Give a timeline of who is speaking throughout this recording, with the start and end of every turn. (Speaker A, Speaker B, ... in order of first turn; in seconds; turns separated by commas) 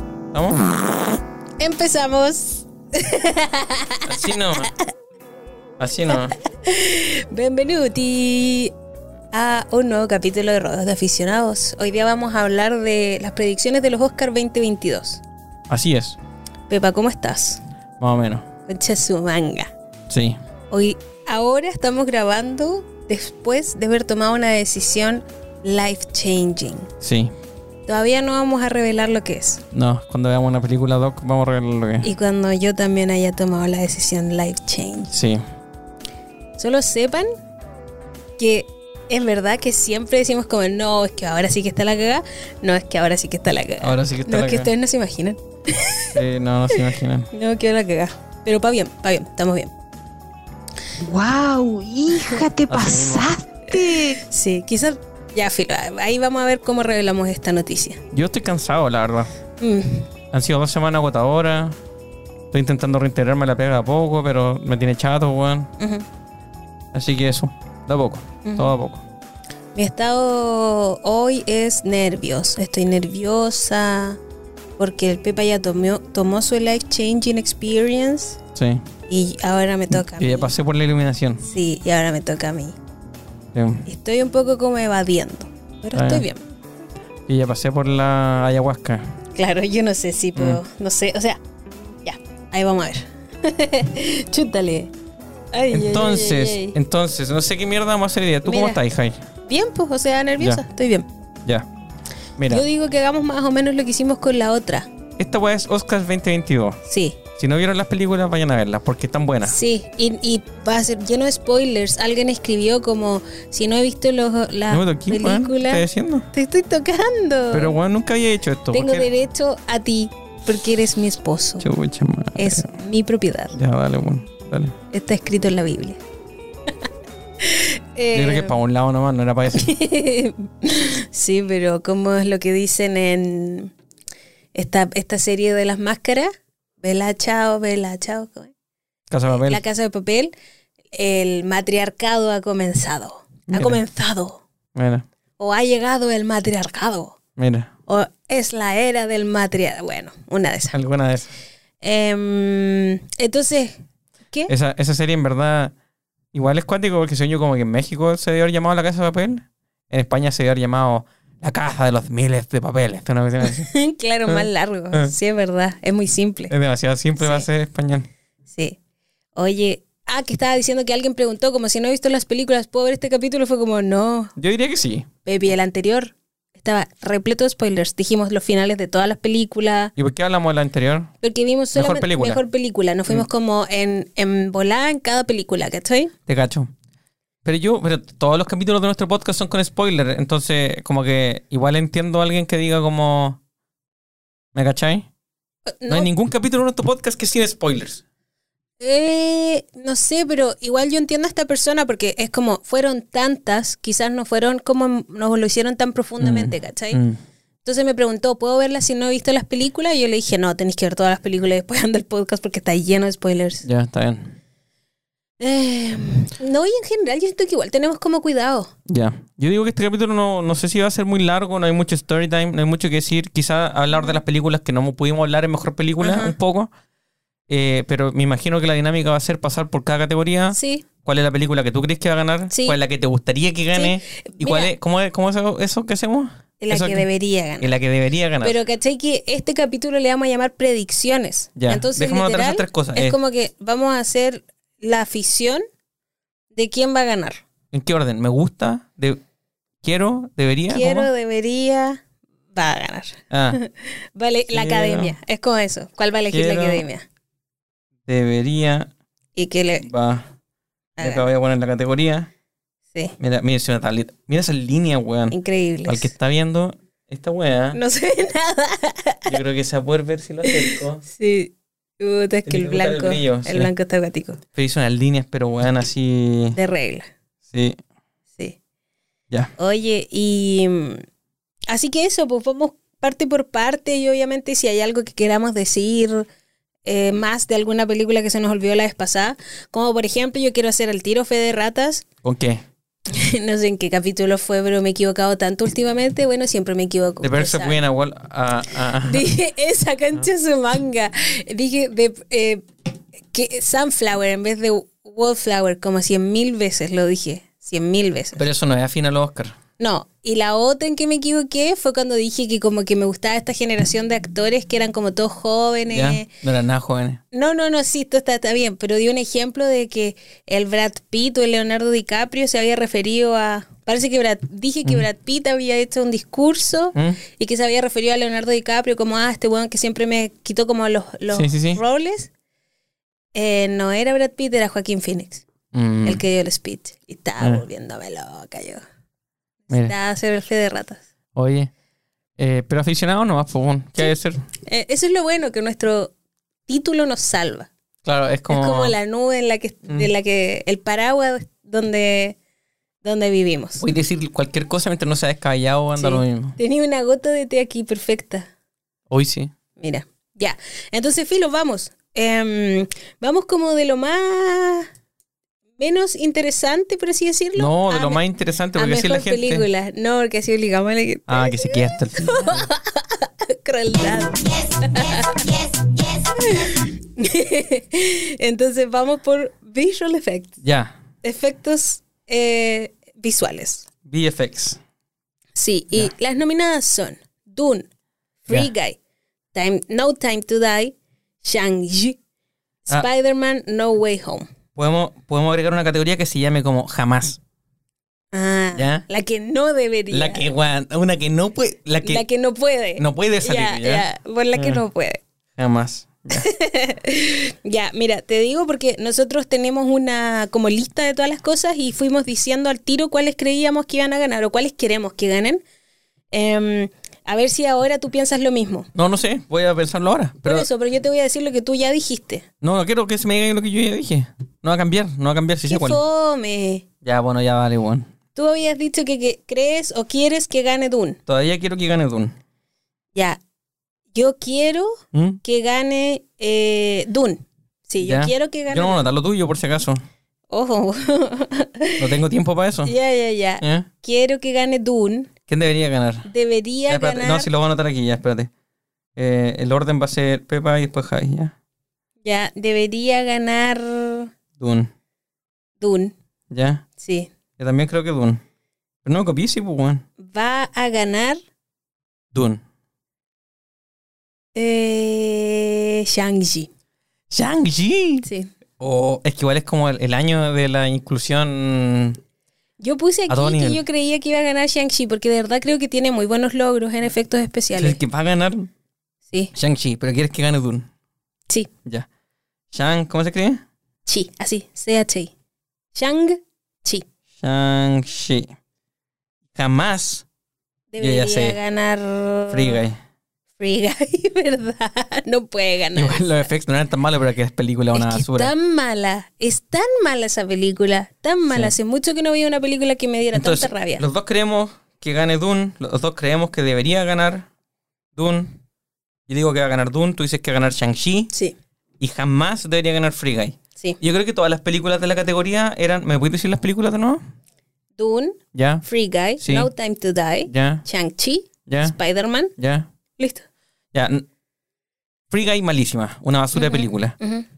Speaker A: 0.3-1.2, Speaker B: 1.6-4.8, Speaker A: 4.1-4.7, Speaker A: 5.8-6.3, Speaker B: 6.1-8.7, Speaker B: 9.3-15.2, Speaker A: 15.7-16.2, Speaker B: 16.7-17.6, Speaker A: 18.0-18.5, Speaker B: 18.7-19.7, Speaker A: 20.1-20.4, Speaker B: 20.7-26.9, Speaker A: 27.0-27.3, Speaker B: 27.9-29.6, Speaker A: 29.7-32.1, Speaker B: 32.0-35.1, Speaker A: 35.1-35.4, Speaker B: 36.6-37.3, Speaker B: 38.4-46.2, Speaker A: 43.8-44.7, Speaker A: 46.1-47.3, Speaker B: 46.7-49.7, Speaker C: 51.0-54.2, Speaker B: 52.1-52.4, Speaker A: 52.7-53.3, Speaker B: 54.2-58.0, Speaker A: 58.1-59.3, Speaker B: 59.6-60.1, Speaker A: 60.3-61.8, Speaker A: 62.5-65.7, Speaker B: 65.8-66.0, Speaker A: 66.9-69.0, Speaker B: 68.4-68.7, Speaker B: 69.8-74.2, Speaker B: 74.8-78.4, Speaker A: 78.5-78.8, Speaker B: 79.1-80.5, Speaker A: 79.9-81.4, Speaker B: 81.4-82.8, Speaker A: 83.5-83.8, Speaker B: 83.9-86.4, Speaker A: 85.9-86.3, Speaker A: 87.3-89.2, Speaker B: 89.3-91.4, Speaker A: 90.4-90.6, Speaker B: 92.0-94.9, Speaker B: 95.5-96.8, Speaker A: 95.7-99.2, Speaker B: 98.5-98.8, Speaker B: 99.5-101.1, Speaker A: 100.4-100.6, Speaker A: 102.4-102.7, Speaker B: 102.5-104.9, Speaker A: 105.2-106.8, Speaker B: 106.9-107.2, Speaker A: 107.3-109.6, Speaker B: 109.4-117.8, Speaker A: 114.7-116.3, Speaker A: 117.5-119.1, Speaker B: 118.7-121.7, Speaker A: 121.6-122.7, Speaker B: 122.4-123.5, Speaker A: 123.5-124.8, Speaker B: 124.9-126.0, Speaker B: 127.4-128.6, Speaker A: 128.1-129.7, Speaker B: 129.5-133.7, Speaker B: 134.6-138.5, Speaker A: 139.1-139.6, Speaker B: 139.3-140.3, Speaker B: 140.9-144.4, Speaker A: 143.5-143.8, Speaker A: 144.8-145.1, Speaker B: 145.4-147.2, Speaker A: 147.4-147.7, Speaker B: 147.9-150.8, Speaker A: 150.7-151.3, Speaker B: 151.8-153.8, Speaker A: 154.5-155.7, Speaker A: 156.3-163.7, Speaker B: 163.4-166.5, Speaker A: 164.3-165.1, Speaker A: 166.5-168.1, Speaker B: 167.2-167.5, Speaker B: 168.5-168.8, Speaker B: 169.4-174.3, Speaker A: 174.4-175.1, Speaker B: 175.2-179.9, Speaker A: 180.0-181.1, Speaker B: 181.2-186.1, Speaker A: 181.7-182.4, Speaker A: 186.3-186.7, Speaker A: 187.4-193.4, Speaker A: 194.6-195.1, Speaker B: 195.7-196.1, Speaker A: 195.9-198.0, Speaker B: 198.8-207.0, Speaker A: 206.2-207.2, Speaker B: 207.6-213.7, Speaker A: 213.7-214.4, Speaker B: 215.4-218.7, Speaker A: 218.9-226.7, Speaker B: 226.0-226.3, Speaker A: 227.5-237.1, Speaker B: 230.5-230.8, Speaker B: 232.5-232.8, Speaker B: 233.8-234.7, Speaker B: 236.6-237.7, Speaker A: 237.6-238.6, Speaker B: 238.4-245.6, Speaker A: 241.6-243.2, Speaker B: 246.6-247.4, Speaker A: 247.7-249.2, Speaker A: 249.8-251.1, Speaker B: 250.7-252.0, Speaker B: 252.6-257.1, Speaker A: 253.3-253.6, Speaker A: 254.5-255.2, Speaker A: 256.3-256.9, Speaker A: 258.1-258.9, Speaker B: 259.4-259.9, Speaker A: 259.8-260.3, Speaker B: 261.0-261.2, Speaker A: 261.0-262.3, Speaker A: 263.2-267.8, Speaker B: 265.3-266.1, Speaker B: 267.7-269.4, Speaker A: 269.3-271.0, Speaker B: 270.4-274.4, Speaker A: 272.5-273.7, Speaker A: 274.5-276.6, Speaker B: 276.6-277.1, Speaker A: 277.5-277.8, Speaker B: 279.6-281.0, Speaker B: 281.7-286.3, Speaker B: 286.9-292.1, Speaker A: 292.2-292.6, Speaker B: 293.1-297.8, Speaker A: 297.2-299.2, Speaker B: 299.0-302.6, Speaker B: 303.3-308.4, Speaker A: 308.4-309.6, Speaker B: 309.8-316.3, Speaker A: 315.9-317.2, Speaker B: 317.3-332.3, Speaker A: 331.3-331.8, Speaker B: 333.3-335.4, Speaker A: 335.7-336.2, Speaker B: 336.0-338.9, Speaker B: 339.7-341.0, Speaker A: 341.4-341.7, Speaker A: 342.4-344.4, Speaker B: 344.6-346.1, Speaker B: 346.7-347.7, Speaker A: 348.1-348.9, Speaker B: 348.5-352.4, Speaker B: 353.0-353.9, Speaker A: 353.8-356.6, Speaker B: 356.0-358.5, Speaker A: 359.1-359.5, Speaker B: 359.8-364.9, Speaker B: 365.8-368.2, Speaker A: 367.6-369.7, Speaker B: 368.8-380.6, Speaker A: 371.3-372.7, Speaker A: 380.6-380.9, Speaker B: 381.2-383.9, Speaker A: 384.1-384.8, Speaker B: 385.6-387.9, Speaker B: 388.4-389.0, Speaker B: 389.5-392.2, Speaker B: 392.9-394.5, Speaker A: 394.8-397.4, Speaker B: 398.3-400.5, Speaker A: 398.8-399.1, Speaker A: 400.1-402.2, Speaker B: 402.0-405.2, Speaker A: 403.0-404.8, Speaker A: 405.6-406.5, Speaker B: 406.3-415.6, Speaker B: 416.3-418.9, Speaker A: 418.9-420.7, Speaker B: 420.4-422.4, Speaker A: 422.6-426.0, Speaker B: 425.7-426.9, Speaker A: 427.0-428.1, Speaker B: 428.4-431.2, Speaker A: 431.3-432.4, Speaker B: 434.1-439.0, Speaker A: 435.1-435.4, Speaker A: 438.0-440.0, Speaker B: 440.5-442.1, Speaker A: 442.0-442.9, Speaker B: 442.9-445.3, Speaker A: 443.6-443.9, Speaker A: 445.5-446.3, Speaker B: 446.3-447.5, Speaker A: 446.9-448.5, Speaker A: 449.2-451.5, Speaker B: 452.2-454.3, Speaker A: 454.6-454.9, Speaker B: 455.8-456.1, Speaker A: 456.5-456.9, Speaker B: 457.0-457.3, Speaker A: 457.6-458.4, Speaker A: 459.1-460.1, Speaker B: 460.2-461.4, Speaker A: 462.3-462.6, Speaker B: 464.6-466.7, Speaker A: 467.3-468.3, Speaker B: 468.2-468.5, Speaker A: 468.8-472.2, Speaker B: 472.8-478.0, Speaker A: 473.3-473.8, Speaker A: 477.8-478.7, Speaker A: 479.5-480.9, Speaker A: 482.7-483.6, Speaker B: 484.1-485.3, Speaker B: 485.9-487.1, Speaker A: 487.4-488.5, Speaker A: 489.6-490.3, Speaker B: 490.9-492.8, Speaker A: 491.0-491.6, Speaker A: 492.5-493.0, Speaker B: 493.6-496.3, Speaker A: 495.9-498.5, Speaker B: 497.9-504.0, Speaker A: 503.3-507.5, Speaker A: 508.2-508.5, Speaker A: 509.3-511.3, Speaker A: 512.0-517.2, Speaker B: 518.0-522.5, Speaker A: 518.5-518.8, Speaker A: 519.4-519.7, Speaker A: 520.5-520.8, Speaker A: 521.7-522.0, Speaker A: 522.6-522.9, Speaker B: 523.2-523.5, Speaker A: 523.9-524.2, Speaker A: 525.3-527.2, Speaker B: 526.5-527.5